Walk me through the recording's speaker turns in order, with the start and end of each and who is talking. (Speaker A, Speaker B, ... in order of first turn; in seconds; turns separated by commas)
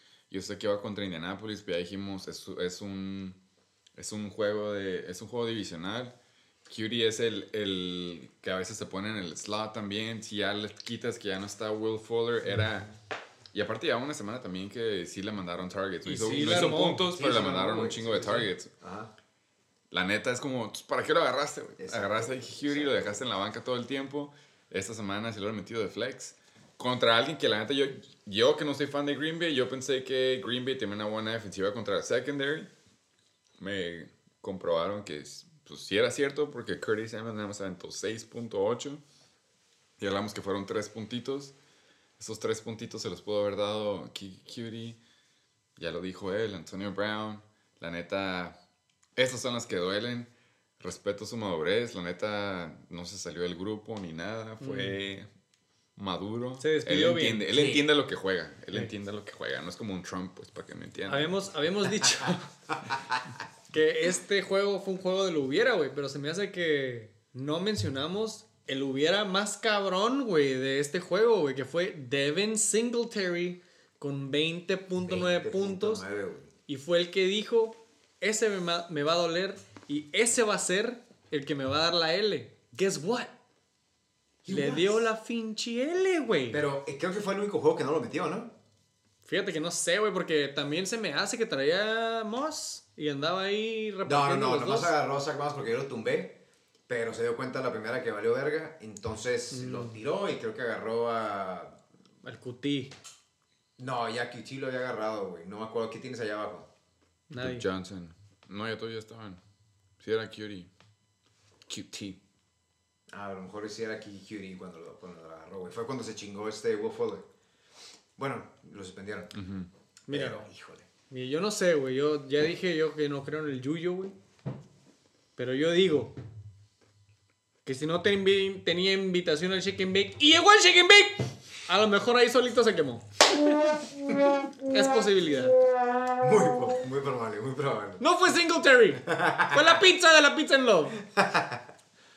Speaker A: 0.3-3.4, Speaker A: 4.0-6.2, Speaker A: 6.7-12.9, Speaker A: 13.5-18.7, Speaker B: 16.1-17.1, Speaker C: 16.3-19.1, Speaker A: 19.9-32.7, Speaker C: 21.8-23.2, Speaker A: 33.6-39.0, Speaker A: 40.0-41.5, Speaker A: 42.2-45.0, Speaker A: 45.8-48.6, Speaker A: 49.2-55.3, Speaker B: 54.6-55.0, Speaker A: 56.0-61.4, Speaker B: 56.6-57.5, Speaker C: 57.5-57.8, Speaker B: 61.1-62.5, Speaker B: 63.7-76.0, Speaker C: 75.0-76.5, Speaker B: 76.7-83.3, Speaker C: 84.4-85.0, Speaker B: 84.5-86.7, Speaker C: 86.5-88.5, Speaker B: 89.2-94.9, Speaker C: 94.0-101.8, Speaker B: 99.5-100.0, Speaker B: 102.2-102.9, Speaker C: 103.8-106.7, Speaker B: 107.3-107.7, Speaker A: 107.4-109.4, Speaker A: 110.0-110.7, Speaker A: 111.7-112.2, Speaker C: 113.1-117.3, Speaker C: 118.2-119.4, Speaker A: 119.3-119.7, Speaker B: 120.1-120.5, Speaker C: 120.1-120.9, Speaker B: 121.1-124.2, Speaker B: 125.4-126.2, Speaker B: 127.7-133.1, Speaker B: 134.7-135.6, Speaker C: 136.2-138.0, Speaker B: 138.0-141.0, Speaker C: 139.0-139.8, Speaker C: 141.1-141.7